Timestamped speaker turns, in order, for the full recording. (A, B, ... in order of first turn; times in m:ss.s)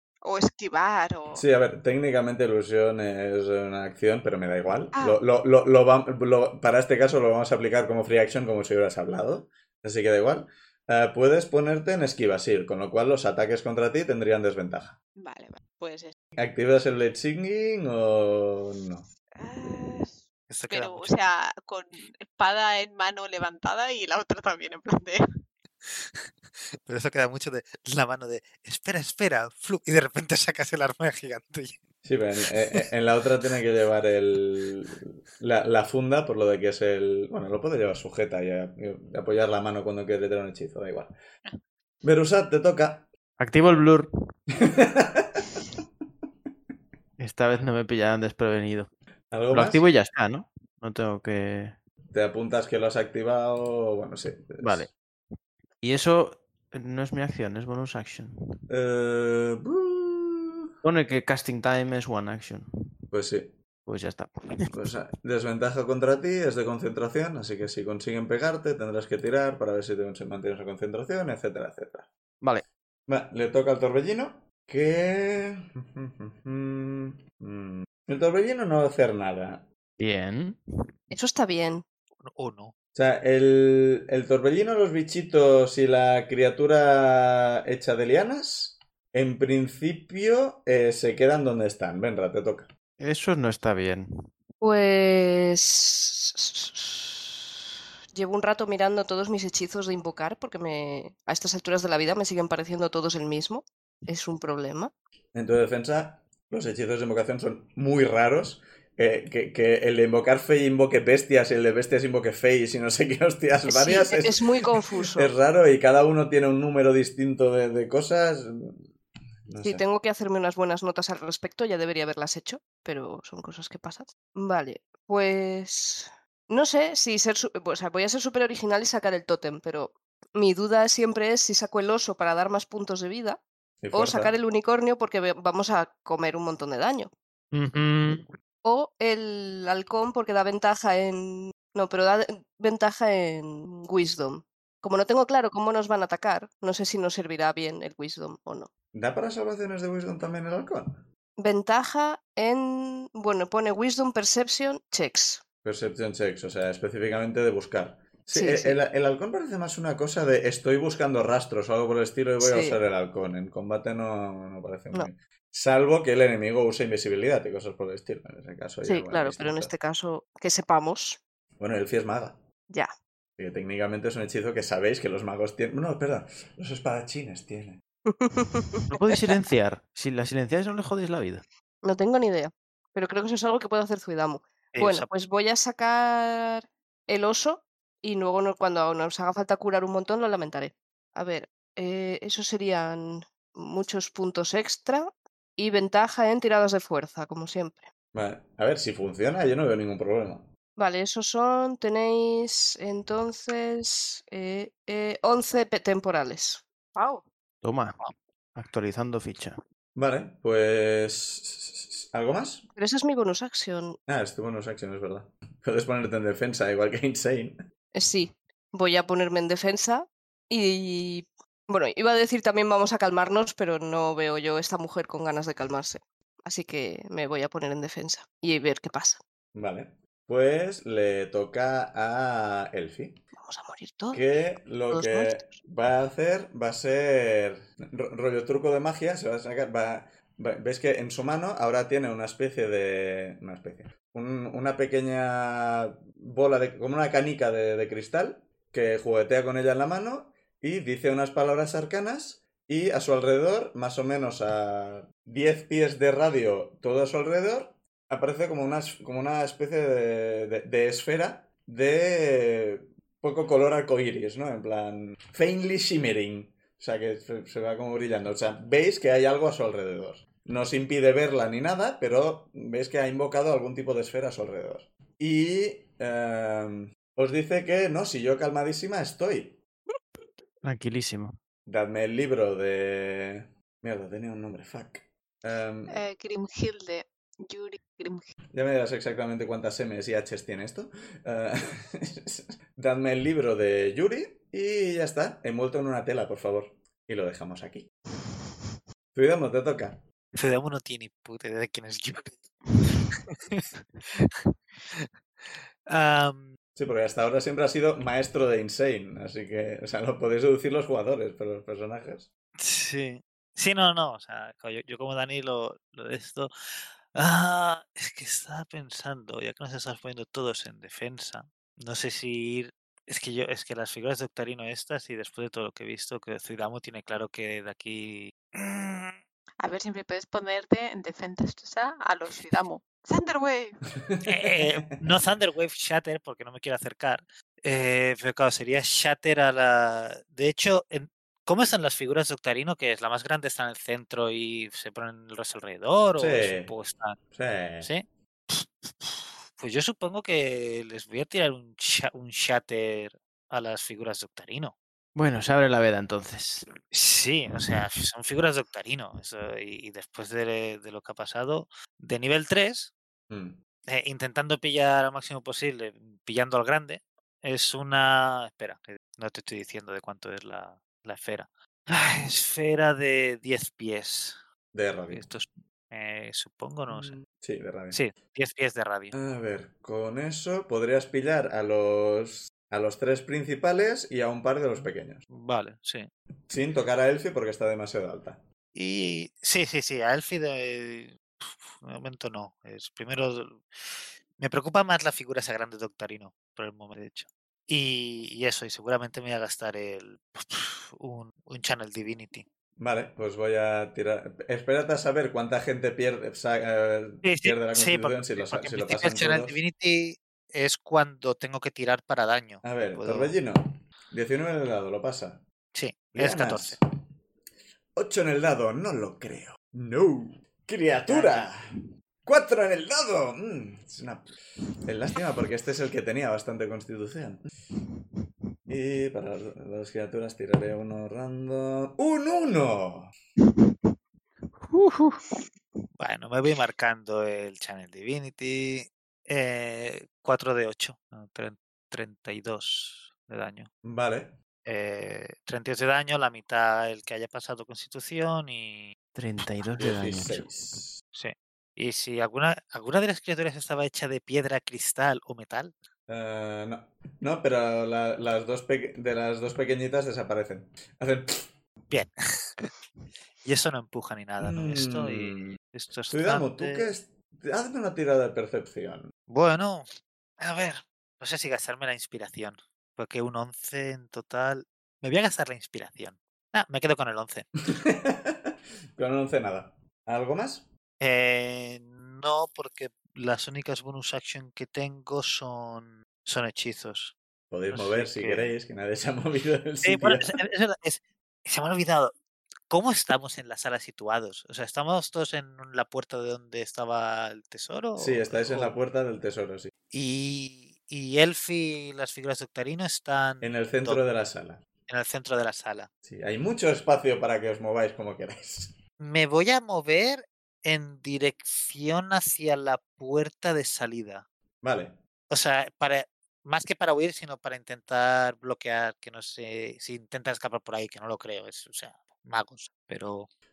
0:00.2-0:01.4 A
0:01.4-0:15.0 B
0:04.9-0:05.2 A
0:15.2-0:16.2 A
0:16.4-0:19.1 B
0:19.4-0:25.2 A
0:20.5-0:21.2 C
0:25.9-0:26.2 C
0:26.9-0:31.8 C
0:32.0-0:41.1 B
0:32.5-0:32.8 C
0:42.0-0:43.1 B
0:43.4-0:44.1 D
0:44.6-0:45.6 B
0:47.2-0:48.9 D
0:49.3-0:49.8 B
0:49.5-0:51.8 D
0:52.1-0:54.9 B
0:54.6-0:54.9 D
0:55.8-0:58.3 D
0:58.7-1:00.7 B
1:00.8-1:02.6 D
1:03.1-1:03.6 B
1:03.9-1:04.7 D
1:04.7-1:12.1 B
1:13.1-1:19.7 B
1:20.0-1:20.6 D
1:21.1-1:21.8 E
1:22.2-1:22.7 C
1:23.0-1:32.7 B
1:33.0-1:34.1 D
1:34.6-1:37.4 E
1:38.2-1:44.9 E
1:45.3-1:54.4 B
1:53.7-1:55.3 E
1:55.1-1:58.8 B
1:59.5-1:59.8 B
1:59.6-2:13.4 E
2:13.8-2:14.4 B
2:13.9-2:17.1 E
2:17.5-2:18.3 C
2:18.6-2:28.7 E
2:28.9-2:31.0 B
2:31.4-2:35.4 E
2:35.6-2:49.7 B
2:38.3-2:38.8 E
2:42.4-2:42.8 E
2:48.8-2:51.2 E
2:51.6-2:52.4 B
2:53.4-2:57.8 B
2:58.1-2:59.3 E
2:58.9-3:01.4 D
3:01.8-3:17.9 E
3:04.7-3:05.1 C
3:18.1-3:20.5 B
3:20.8-3:27.2 E
3:27.6-3:28.0 D
3:28.6-3:29.6 D
3:30.0-3:32.7 B
3:32.8-3:34.0 E
3:34.1-3:37.6 B
3:37.9-3:49.2 E
3:49.5-3:53.2 B
3:53.4-3:54.2 E
3:54.1-4:39.6 B
3:54.9-3:55.6 E
4:40.6-4:41.4 D
4:41.7-4:46.0 B
4:45.9-4:48.3 A
4:48.5-4:57.9 B
4:59.1-5:00.0 B
5:00.4-5:04.4 C
5:05.9-5:06.5 C
5:06.8-5:12.3 B
5:12.6-5:16.5 C
5:17.1-5:29.2 C
5:29.6-5:33.8 A
5:34.1-5:34.7 B
5:34.2-5:47.2 C
5:46.2-5:46.7 B
5:47.3-5:47.9 B
5:47.8-5:54.8 C
5:55.2-5:56.7 D
5:56.9-6:02.9 C
6:03.3-6:03.6 B
6:03.9-6:14.4 C
6:14.7-6:15.3 B
6:15.1-6:17.2 C
6:16.9-6:18.0 B
6:17.9-6:19.2 C
6:19.1-6:25.2 B
6:24.8-6:26.1 C
6:26.5-6:28.4 B
6:28.7-6:42.5 C
6:42.8-6:49.6 B
6:47.2-6:53.4 C
6:52.6-6:55.4 B
6:55.7-6:56.8 C
6:56.1-6:56.8 B
6:58.0-7:01.6 B
7:01.1-7:01.5 C
7:02.2-7:04.3 B
7:04.9-7:07.5 B
7:08.7-7:13.1 B
7:16.0-7:23.7 C
7:23.8-7:24.4 B
7:24.7-7:29.0 C
7:29.2-7:30.5 D
7:29.8-7:31.0 B
7:31.1-7:35.7 C
7:36.1-7:41.5 B
7:41.9-7:42.7 C
7:43.4-7:46.9 C
7:44.4-7:45.6 B
7:46.1-7:49.1 B
7:49.3-7:49.9 C
7:50.4-7:57.5 C
7:57.7-8:00.7 B
8:01.0-8:07.2 C
8:07.5-8:10.4 B
8:07.7-8:08.5 C
8:09.8-8:12.2 C
8:12.7-8:18.8 C
8:18.0-8:19.7 B
8:19.9-8:24.0 C
8:23.4-8:24.6 B
8:24.9-8:25.9 C
8:26.0-8:28.8 B
8:29.0-8:34.3 C
8:34.6-8:35.0 B
8:35.3-8:43.3 C